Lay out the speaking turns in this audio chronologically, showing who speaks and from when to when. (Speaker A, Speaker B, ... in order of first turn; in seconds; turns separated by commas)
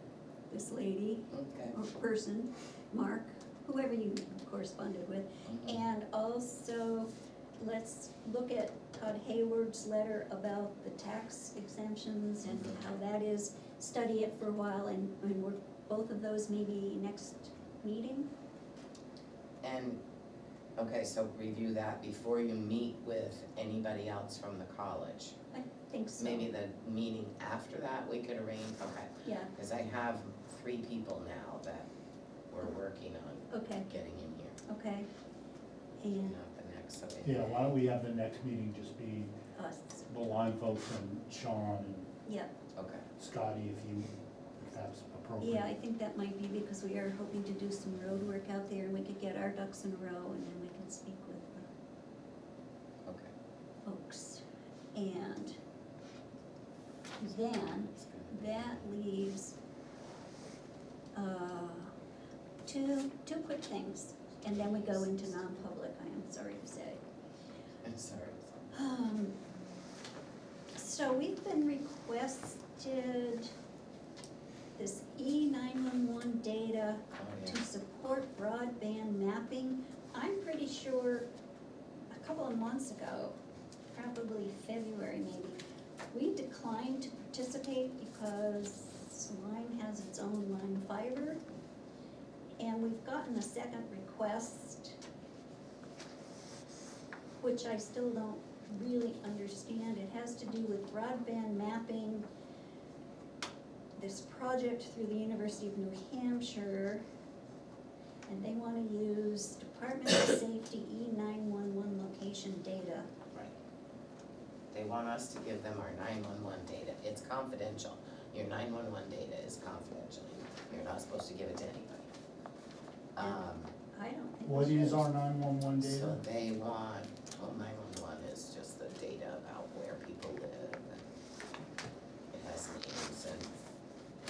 Speaker A: 0.5-18.3, Speaker B: 1.3-1.8, Speaker B: 5.5-5.8, Speaker B: 12.5-12.8, Speaker B: 19.6-20.0, Speaker B: 20.8-25.4, Speaker A: 25.5-26.5, Speaker B: 26.2-31.9, Speaker A: 29.2-29.5, Speaker B: 32.5-34.6, Speaker A: 33.5-33.9, Speaker A: 34.6-35.1, Speaker A: 36.0-36.4, Speaker B: 36.2-37.7, Speaker C: 37.2-39.3, Speaker A: 39.6-40.0, Speaker C: 40.1-42.1, Speaker A: 42.2-42.5, Speaker B: 42.8-43.0, Speaker C: 43.2-45.7, Speaker A: 45.4-51.6, Speaker B: 53.1-53.3, Speaker A: 53.9-54.4, Speaker A: 54.9-55.5, Speaker A: 57.2-59.5, Speaker B: 58.0-58.8, Speaker A: 61.1-61.9, Speaker A: 62.7-67.0, Speaker B: 64.6-65.1, Speaker B: 67.8-68.7, Speaker A: 68.7-69.4, Speaker A: 70.8-73.5, Speaker A: 74.8-81.3, Speaker B: 77.1-77.6, Speaker A: 82.1-83.3, Speaker A: 83.9-85.6, Speaker A: 86.1-91.4, Speaker A: 92.6-95.0, Speaker A: 97.4-102.2, Speaker A: 104.0-107.0, Speaker A: 108.3-113.1, Speaker B: 114.7-122.1, Speaker B: 123.2-123.7, Speaker A: 123.2-125.1, Speaker C: 124.5-126.2, Speaker B: 125.8-131.0, Speaker B: 132.3-133.5